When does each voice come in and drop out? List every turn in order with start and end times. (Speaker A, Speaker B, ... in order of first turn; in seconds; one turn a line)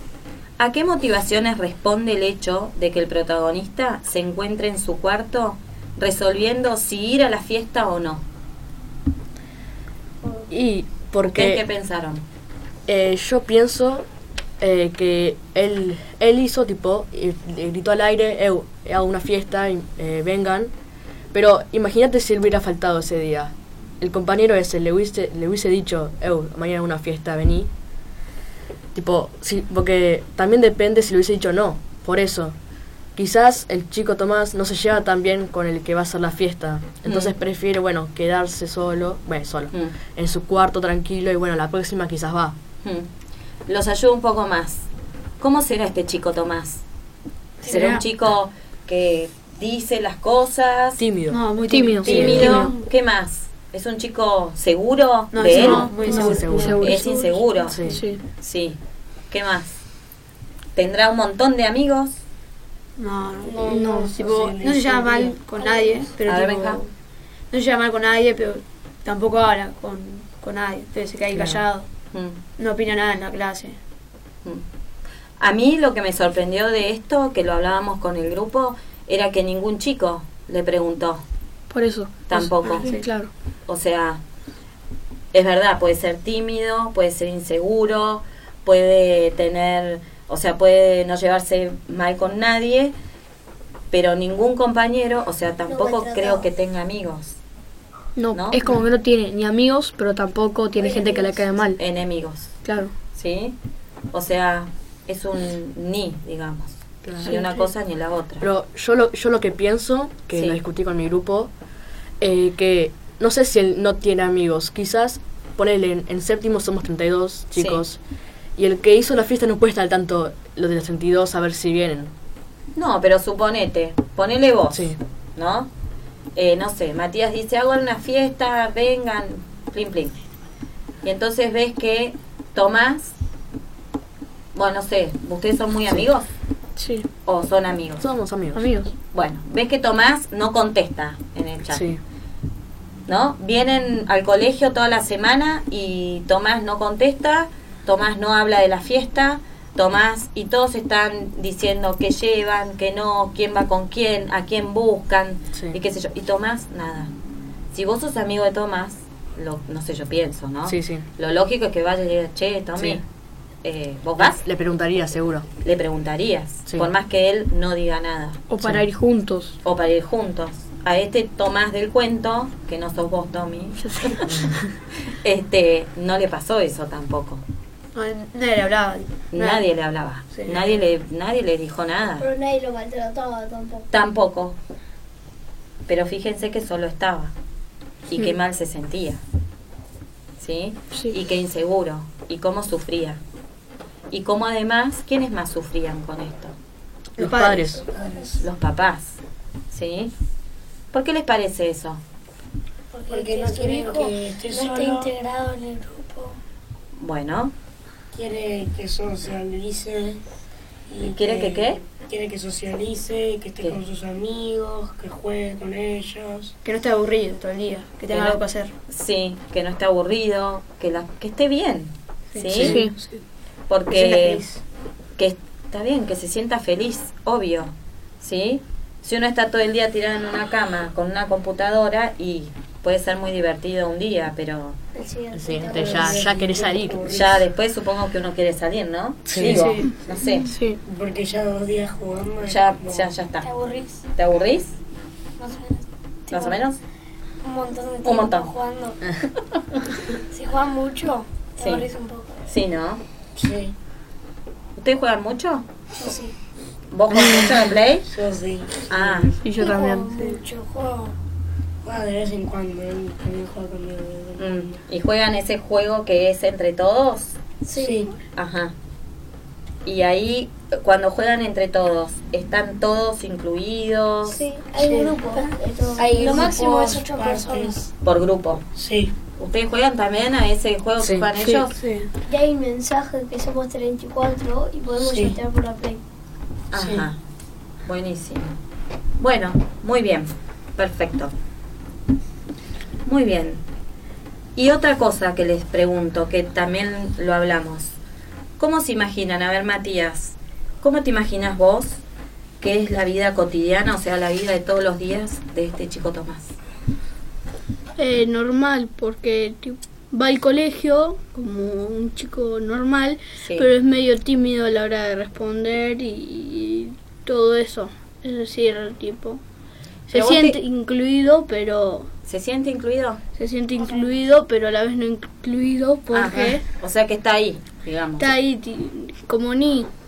Speaker A: 0.6-8.2
Speaker B: 10.5-11.6
Speaker A: 11.2-12.2
Speaker B: 12.9-14.1
Speaker B: 14.6-20.7
Speaker B: 21.3-27.7
Speaker B: 28.9-32.5
Speaker B: 33.2-42.6
Speaker A: 37.0-37.4
Speaker A: 42.8-43.1
Speaker A: 43.7-44.9
Speaker A: 45.4-46.8
Speaker C: 47.6-48.0
Speaker A: 47.6-51.0
Speaker B: 51.0-51.4
Speaker C: 51.3-52.8
Speaker D: 51.7-52.7
Speaker A: 52.0-56.0
Speaker B: 52.1-52.6
Speaker C: 55.3-56.8
Speaker B: 55.5-56.8
Speaker D: 55.6-57.1
Speaker A: 56.8-57.9
Speaker B: 57.7-58.0
Speaker D: 57.9-58.2
Speaker A: 58.4-58.8
Speaker A: 59.3-59.8
Speaker A: 60.8-62.2
Speaker C: 63.0-66.9
Speaker E: 63.4-66.1
Speaker D: 63.7-64.1
Speaker A: 66.3-66.8
Speaker C: 67.5-71.9
Speaker B: 71.3-71.6
Speaker A: 72.1-72.4
Speaker C: 72.6-73.8
Speaker A: 75.4-81.2
Speaker D: 81.7-83.3
Speaker A: 82.3-82.9
Speaker C: 82.7-83.1
Speaker A: 83.7-84.2
Speaker A: 85.3-93.0
Speaker A: 93.9-97.4
Speaker F: 95.7-96.5
Speaker D: 98.2-101.8
Speaker A: 98.3-98.6
Speaker F: 100.8-101.4
Speaker A: 101.8-102.6
Speaker D: 102.6-102.9
Speaker A: 103.1-103.6
Speaker A: 104.1-108.5
Speaker B: 107.0-107.4
Speaker D: 107.3-107.6
Speaker B: 108.4-111.5
Speaker A: 110.3-110.6
Speaker B: 112.2-118.0
Speaker A: 117.5-117.8
Speaker B: 118.6-122.1
Speaker A: 122.8-125.7
Speaker B: 124.7-125.0
Speaker A: 126.3-130.2
Speaker A: 131.0-133.2
Speaker A: 134.5-136.3
Speaker D: 136.8-137.1
Speaker A: 137.2-138.0
Speaker B: 138.0-138.7
Speaker D: 138.5-138.9
Speaker A: 139.1-141.9
Speaker B: 141.7-142.0
Speaker A: 143.1-157.1
Speaker A: 157.7-163.0
Speaker B: 160.7-161.1
Speaker A: 163.6-164.4
Speaker B: 164.2-165.5
Speaker A: 165.6-168.4
Speaker D: 168.5-169.6
Speaker A: 169.6-174.5
Speaker D: 173.8-174.3
Speaker A: 175.1-177.4
Speaker C: 177.9-179.6
Speaker A: 179.3-182.3
Speaker C: 180.3-180.8
Speaker F: 182.2-183.9
Speaker A: 183.9-184.6
Speaker A: 185.9-187.3
Speaker A: 188.1-189.2
Speaker A: 190.4-193.2
Speaker A: 194.1-196.6
Speaker B: 197.2-197.8
Speaker C: 197.2-197.9
Speaker E: 197.9-198.3
Speaker A: 198.4-199.2
Speaker A: 199.7-200.1
Speaker A: 200.9-202.0
Speaker G: 202.9-206.4
Speaker E: 203.1-205.1
Speaker A: 207.0-207.6
Speaker E: 208.1-210.2
Speaker E: 210.9-216.6
Speaker A: 211.1-211.8
Speaker C: 216.7-218.7
Speaker A: 218.1-222.8
Speaker C: 222.3-223.2
Speaker D: 222.6-222.9
Speaker A: 223.7-224.4
Speaker C: 223.9-224.4
Speaker A: 225.2-234.8
Speaker F: 234.9-236.3
Speaker B: 235.3-237.0
Speaker E: 235.7-237.4
Speaker A: 237.1-240.5
Speaker B: 239.3-239.8
Speaker C: 239.4-239.9
Speaker D: 240.5-240.8
Speaker E: 240.8-243.1
Speaker A: 242.5-243.5
Speaker G: 243.4-244.1
Speaker A: 244.2-244.8
Speaker G: 245.4-246.6
Speaker A: 246.3-246.8
Speaker G: 247.4-249.0
Speaker A: 248.0-248.5
Speaker A: 249.5-249.8
Speaker G: 250.3-252.4
Speaker A: 251.6-251.9
Speaker A: 252.5-253.0
Speaker E: 253.4-253.7
Speaker A: 254.8-255.7
Speaker G: 256.0-256.3
Speaker A: 256.9-258.1
Speaker E: 258.1-259.4
Speaker A: 258.9-259.3
Speaker D: 259.4-260.3
Speaker G: 259.6-261.2
Speaker E: 261.8-264.8
Speaker A: 264.4-267.4
Speaker F: 267.7-268.1
Speaker E: 267.8-268.1
Speaker A: 268.4-268.8
Speaker A: 269.9-274.4
Speaker F: 274.3-276.6
Speaker G: 274.7-277.9
Speaker E: 276.0-277.8
Speaker A: 278.0-278.6
Speaker E: 278.8-279.1
Speaker A: 279.4-281.8
Speaker B: 281.0-281.3
Speaker F: 282.3-286.0
Speaker E: 285.0-285.4
Speaker A: 286.7-287.2
Speaker E: 286.8-287.1
Speaker A: 287.9-288.6
Speaker A: 289.2-291.3
Speaker A: 293.1-293.6
Speaker A: 294.6-297.9
Speaker A: 298.6-302.0
Speaker A: 302.6-306.6
Speaker H: 308.0-319.4
Speaker A: 313.4-313.7
Speaker H: 320.1-322.1
Speaker A: 320.1-320.6
Speaker A: 322.3-323.2
Speaker H: 323.4-326.6
Speaker A: 326.1-328.3
Speaker H: 328.2-329.9